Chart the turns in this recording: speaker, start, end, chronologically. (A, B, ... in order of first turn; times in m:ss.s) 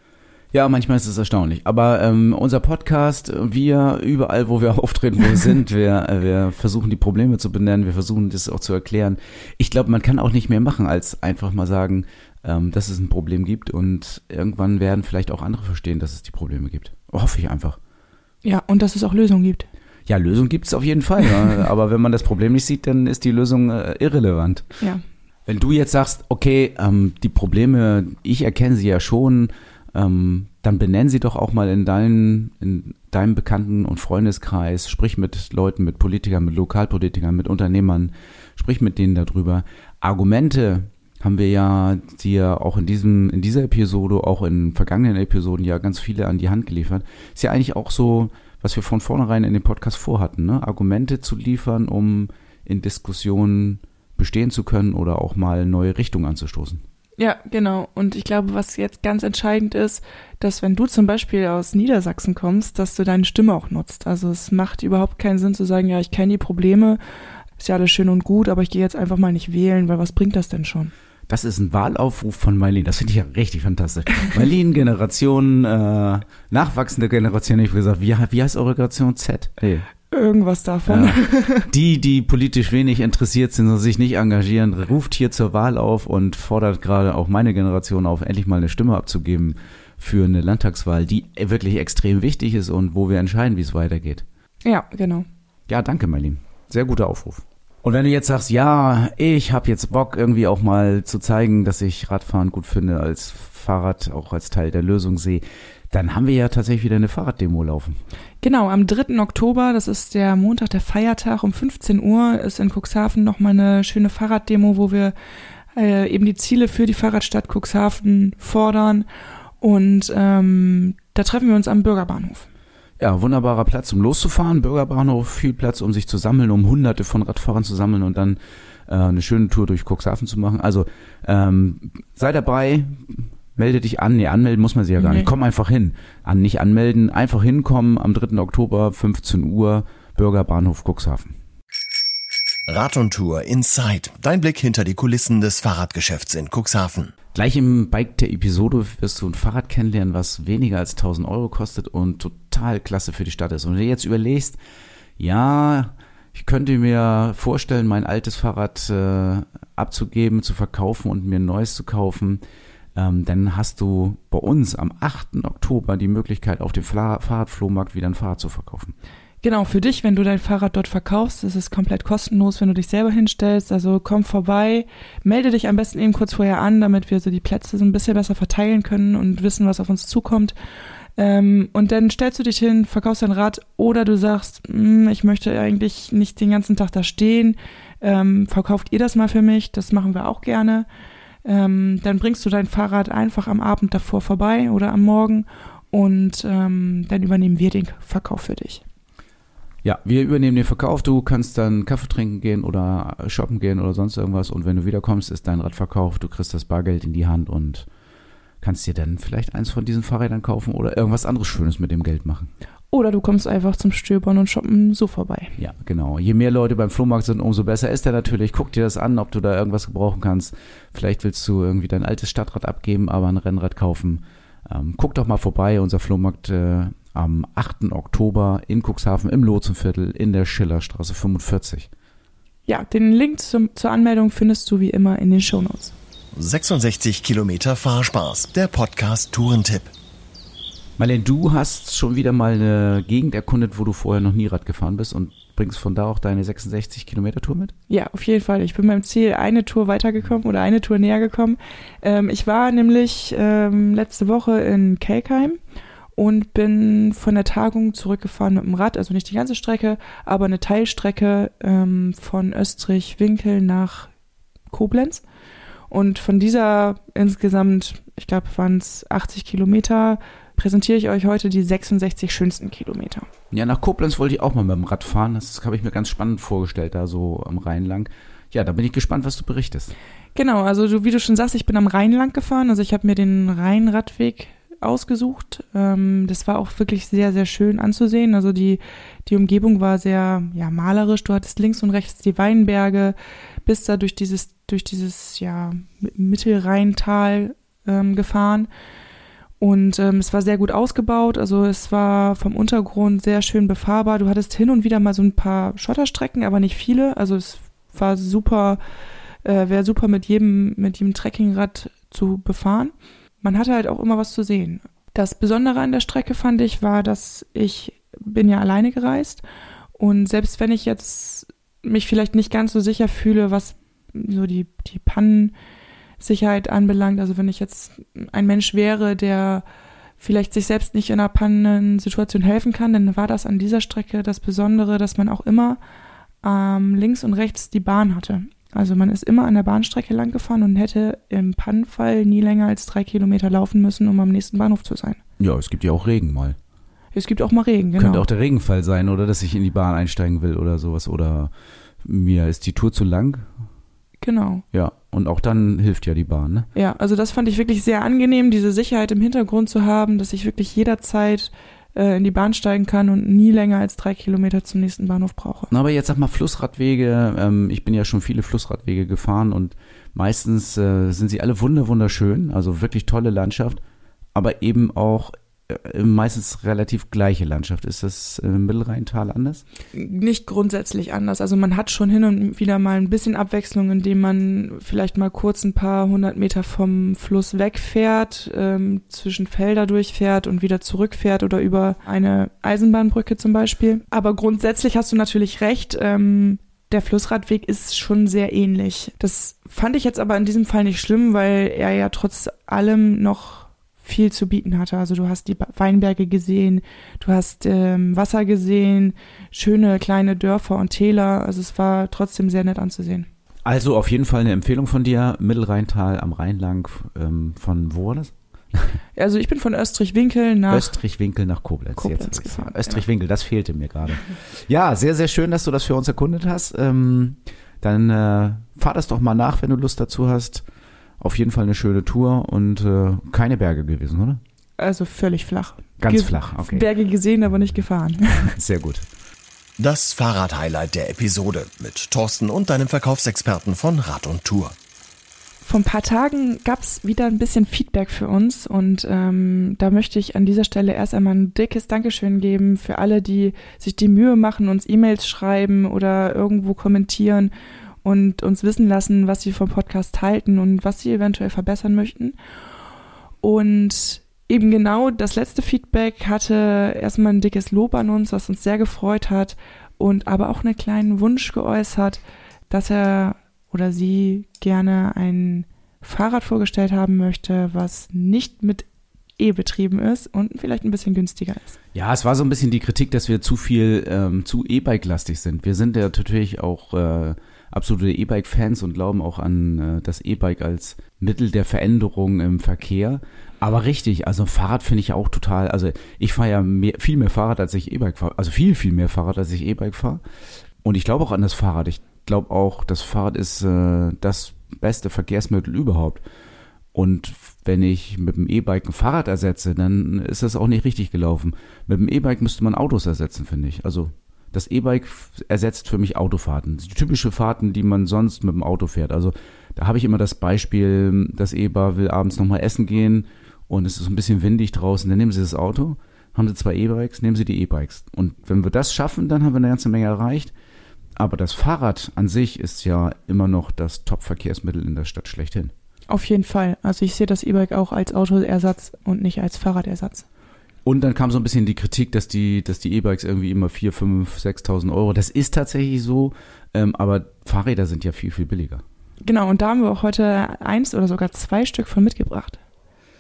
0:00.5-0:17.8 A
0:18.4-0:19.7 B
0:20.1-0:24.6 A
0:25.5-0:56.8 A
0:57.2-1:07.0 B
1:07.6-1:10.9 B
1:11.3-1:19.9 A
1:20.1-1:21.7 B
1:20.9-1:34.2 A
1:34.6-1:35.3 B
1:35.7-1:48.0 A
1:48.4-1:55.1 B
1:55.7-1:59.0 B
1:59.6-2:02.5 B
2:03.0-2:21.3 A
2:15.0-2:15.3 B
2:22.7-2:27.1 C
2:27.3-2:34.6 A
2:35.2-2:42.4 A
2:42.9-2:48.9 A
2:49.4-3:00.5 B
3:01.2-3:10.9 B
3:11.4-3:18.8 B
3:19.8-3:27.9 A
3:28.6-3:32.5 A
3:32.9-3:35.5 B
3:35.6-3:51.9 A
3:52.7-3:55.9 B
3:56.3-3:59.9 C
4:01.0-4:07.7 A
4:07.9-4:15.6 B
4:16.2-4:24.1 B
4:24.7-4:25.2 B
4:25.9-4:33.3 B
4:33.5-4:39.9 A
4:40.3-4:58.7 B
4:59.6-5:08.8 B
5:09.4-5:19.4 B
5:20.0-5:25.5 B
5:26.2-5:29.6 B
5:30.2-5:35.8 B
5:36.4-5:45.2 B
5:45.4-5:46.6 A
5:47.1-5:48.2 B
5:48.0-5:51.5 A
5:52.0-5:53.4 A
5:54.2-5:54.6 B
5:54.7-5:56.7 A
5:56.7-6:05.7 B
6:05.7-6:13.8 A
6:14.3-6:19.6 A
6:19.9-6:53.3 B
6:53.6-6:59.0 A
6:59.1-7:01.0 B
7:00.7-7:10.6 A
7:02.0-7:03.0 B
7:11.2-7:14.4 A
7:14.8-7:18.5 B
7:16.0-7:16.9 A
7:18.5-7:19.1 A
7:19.8-7:24.7 C
7:25.6-7:37.5 B
7:38.0-7:42.4 B
7:43.4-7:58.9 B
7:59.4-8:01.8 B
8:01.9-8:20.2 A
8:20.8-8:26.2 A
8:26.9-8:50.5 A
8:51.2-8:55.7 A
8:56.1-9:00.2 B
9:00.8-9:08.8 A
9:09.2-9:12.6 B